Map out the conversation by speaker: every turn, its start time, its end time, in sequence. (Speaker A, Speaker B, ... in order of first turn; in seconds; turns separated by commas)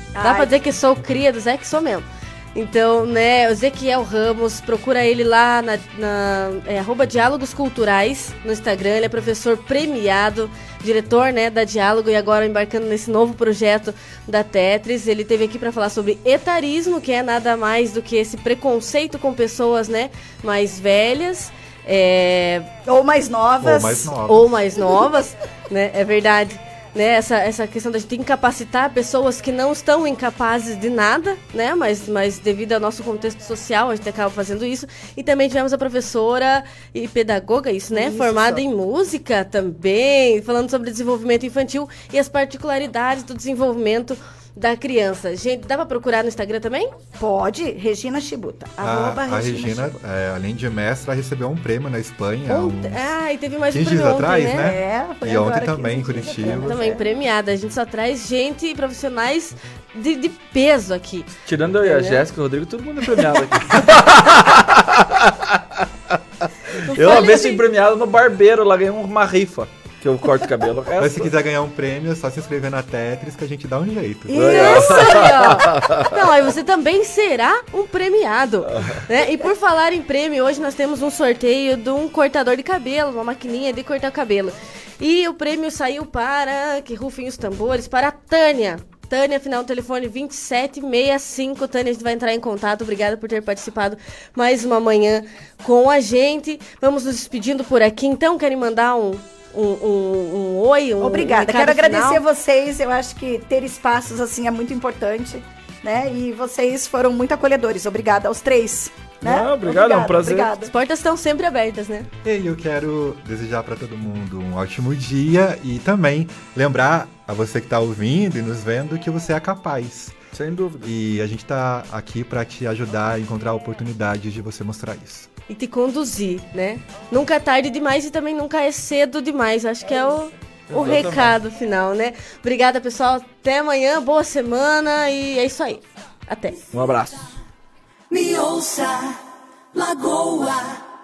Speaker A: 0.1-0.5, Speaker B: 0.2-22.7, Speaker A: 22.8-24.1, Speaker C: 23.6-24.7, Speaker B: 24.3-46.9, Speaker A: 37.9-38.6, Speaker A: 47.2-49.9, Speaker C: 48.8-53.2, Speaker B: 52.5-54.6, Speaker C: 53.7-56.9, Speaker A: 54.6-57.0, Speaker B: 56.5-62.2, Speaker D: 61.5-65.8, Speaker D: 66.7-71.3, Speaker B: 66.9-67.6, Speaker C: 71.0-74.6, Speaker A: 74.3-75.5, Speaker B: 74.3-102.2, Speaker D: 74.3-76.1, Speaker A: 101.0-110.7, Speaker D: 109.2-110.5, Speaker B: 110.6-112.1, Speaker C: 112.2-120.2, Speaker D: 120.3-120.9, Speaker C: 120.8-125.3, Speaker B: 125.5-136.6, Speaker D: 130.7-131.4, Speaker D: 136.7-137.3, Speaker A: 138.1-139.1, Speaker A: 139.8-140.7, Speaker B: 140.1-140.3